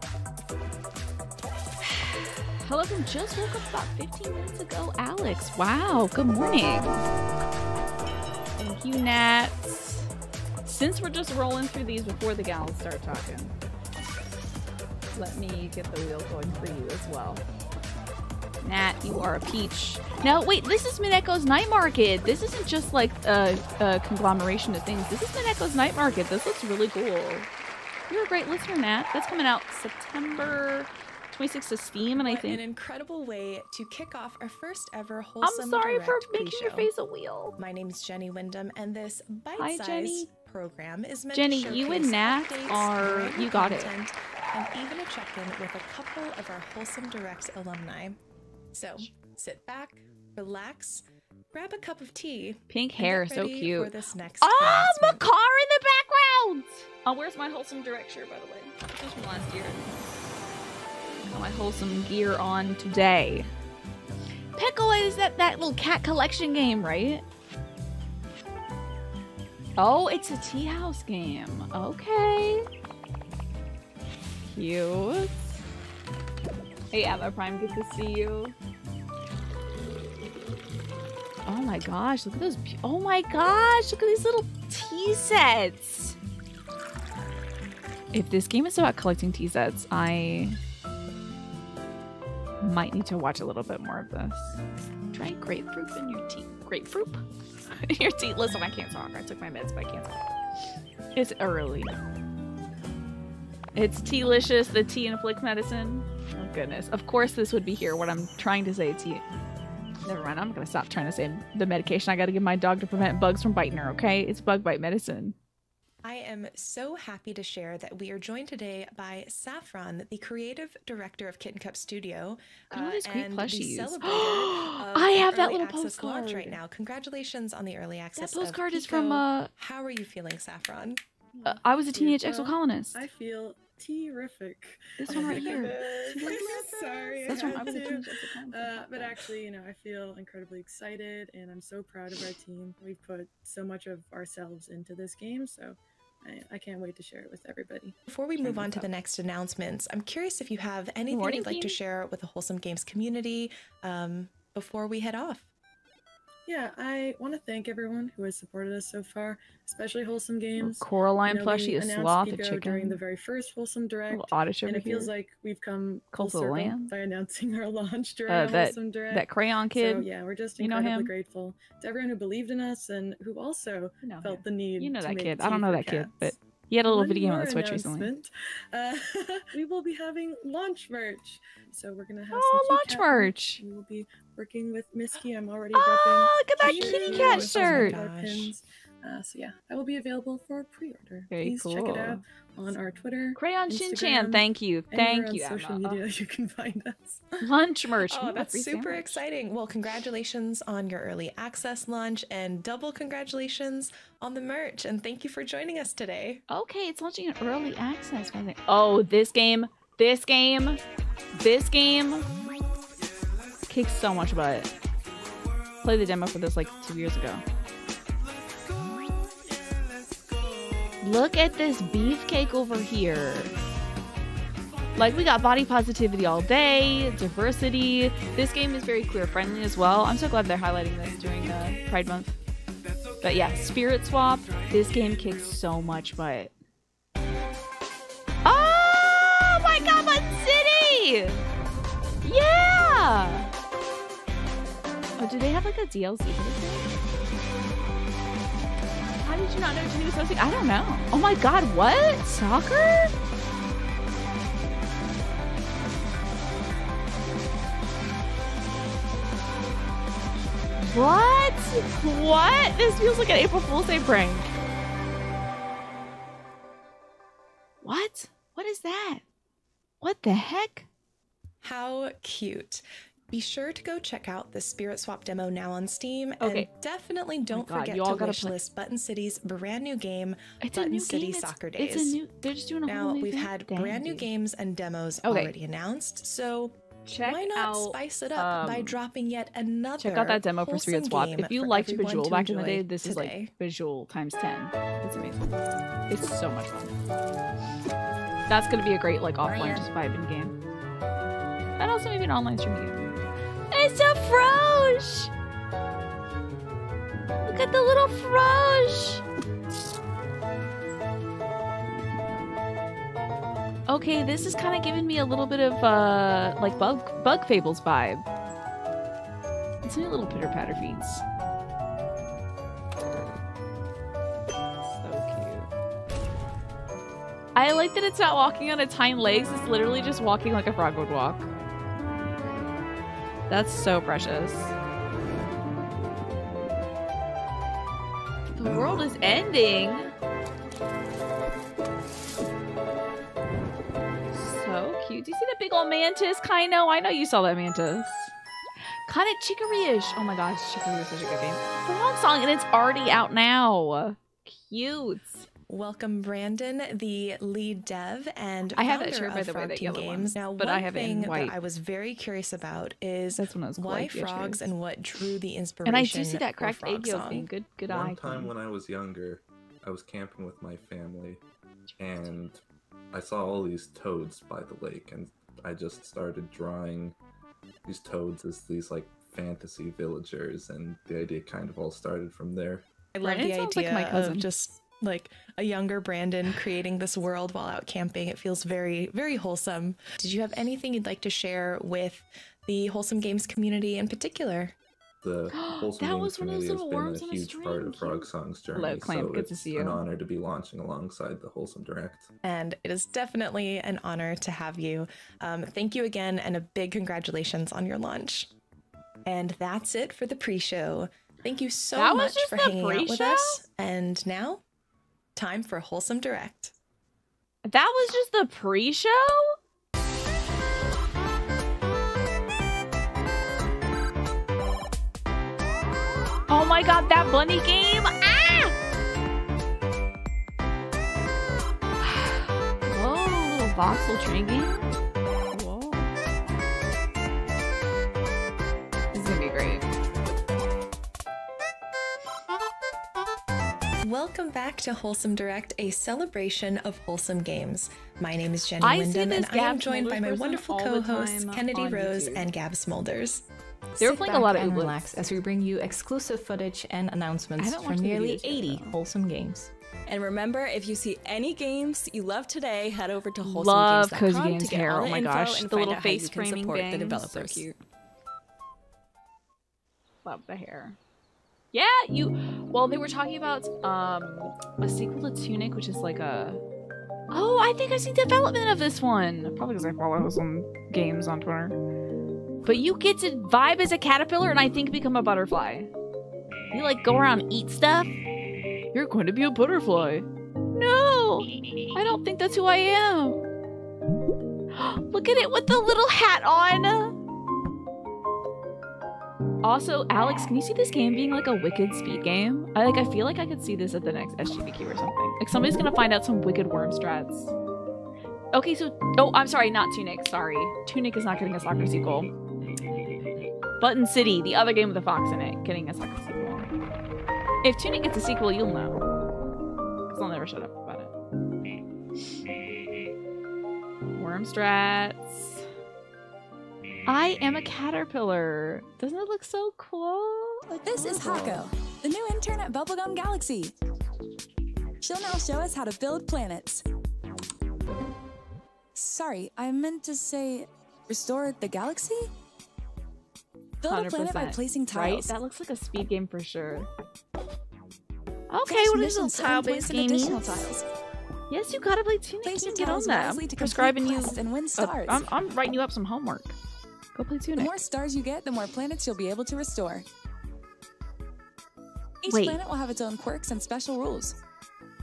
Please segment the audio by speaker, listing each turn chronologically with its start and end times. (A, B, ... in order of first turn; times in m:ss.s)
0:02.6-0:07.0 A
0:08.6-0:10.1 A
0:10.6-0:13.5 A
0:15.1-0:17.4 A
0:18.6-0:27.5 A
0:28.1-0:32.6 A
0:32.1-0:36.9 B
0:35.4-0:37.6 A
0:37.6-0:48.2 B
0:39.6-0:40.3 A
0:41.3-0:43.9 A
0:48.7-0:55.2 B
0:52.7-0:59.9 A
1:01.2-1:03.5 A
1:04.6-1:07.2 A
1:09.8-1:12.6 A
1:14.4-1:15.6 A
1:16.9-1:18.6 A
1:21.5-1:26.2 A
1:28.1-1:30.6 A
1:32.6-1:34.6 A
1:35.1-1:40.2 A
1:41.1-1:41.9 A
1:43.8-1:49.2 A
1:50.0-1:55.4 A
1:56.0-2:11.0 B
2:02.7-2:06.6 A
2:08.2-2:09.5 A
2:11.3-2:28.0 C
2:11.4-2:13.0 A
2:15.0-2:19.3 A
2:15.1-2:17.7 B
2:28.1-2:35.5 B
2:28.4-2:28.9 A
2:31.1-2:31.8 A
2:36.5-3:17.3 C
2:40.6-2:43.0 A
2:44.1-2:45.1 A
2:46.1-2:46.9 A
2:48.3-2:50.1 A
2:50.6-2:51.1 A
2:54.0-2:58.1 A
3:02.3-3:03.6 A
3:05.7-3:08.0 A
3:06.6-3:08.5 B
3:11.3-3:12.2 A
3:13.4-3:16.0 A
3:17.4-3:19.2 A
3:18.1-3:26.4 B
3:26.5-3:30.8 A
3:31.4-3:32.3 A
3:33.7-3:34.7 A
3:35.8-3:37.4 A
3:41.0-3:43.5 A
3:45.0-3:52.4 A
3:53.2-3:56.5 A
3:58.4-4:01.4 A
4:02.2-4:03.5 A
4:05.2-4:06.9 A
4:09.2-4:13.1 A
4:20.8-4:24.5 A
4:27.8-4:29.2 A
4:30.0-4:30.9 A
4:31.6-4:42.2 B
4:36.4-4:36.7 A
4:37.5-4:38.6 A
4:40.6-4:44.3 A
4:42.9-4:53.5 B
4:45.2-4:45.5 A
4:47.0-4:49.0 A
4:50.0-4:55.6 A
4:56.1-4:56.9 A
4:58.5-5:00.6 A
5:01.8-5:03.0 A
5:03.7-5:05.3 A
5:07.4-5:09.2 A
5:13.9-5:18.2 A
5:19.8-5:21.2 A
5:24.8-5:25.7 A
5:27.6-5:31.5 A
5:33.5-5:34.7 A
5:38.5-5:40.1 A
5:44.3-5:48.3 A
5:49.1-5:55.5 A
5:55.7-6:07.5 B
5:58.8-6:01.6 A
6:03.3-6:04.7 A
6:05.9-6:08.5 A
6:07.9-6:11.4 D
6:11.9-6:12.3 A
6:12.0-6:12.6 D
6:13.1-6:17.2 D
6:17.8-6:22.9 D
6:23.1-6:34.7 B
6:23.2-6:24.5 A
6:35.2-6:42.3 D
6:35.5-6:40.0 A
6:42.4-6:48.5 B
6:49.2-6:54.6 B
6:52.0-6:53.6 A
6:55.4-6:56.7 B
6:57.6-6:59.6 A
7:06.5-7:08.8 A
7:12.0-7:15.0 A
7:15.5-7:16.1 A
7:19.1-7:19.9 A
7:24.0-7:33.4 B
7:28.8-7:32.5 A
7:34.0-7:39.7 E
7:34.0-7:35.1 A
7:37.6-7:39.0 A
7:40.1-7:47.7 F
7:43.4-7:47.8 A
7:50.2-7:51.0 A
7:51.7-7:56.6 A
7:57.3-8:01.8 A
8:02.6-8:05.9 A
8:06.7-8:08.1 A
8:08.9-8:13.4 A
8:14.7-8:17.2 A
8:19.6-8:27.5 A
8:28.5-8:32.3 A
8:33.8-8:36.7 A
8:37.6-8:39.0 A
8:40.1-8:41.1 A
8:44.1-8:45.7 A
8:47.1-8:51.6 A
8:50.8-8:53.8 G
8:55.0-8:56.8 G
8:59.0-9:02.3 G
9:03.8-9:05.4 G
9:03.9-9:06.9 A
9:08.5-9:10.7 A
9:08.7-9:10.8 G
9:11.5-9:16.6 A
9:12.4-9:15.3 G
9:17.2-9:17.7 A
9:17.6-9:20.0 G
9:22.2-9:24.4 G
9:22.3-9:22.6 A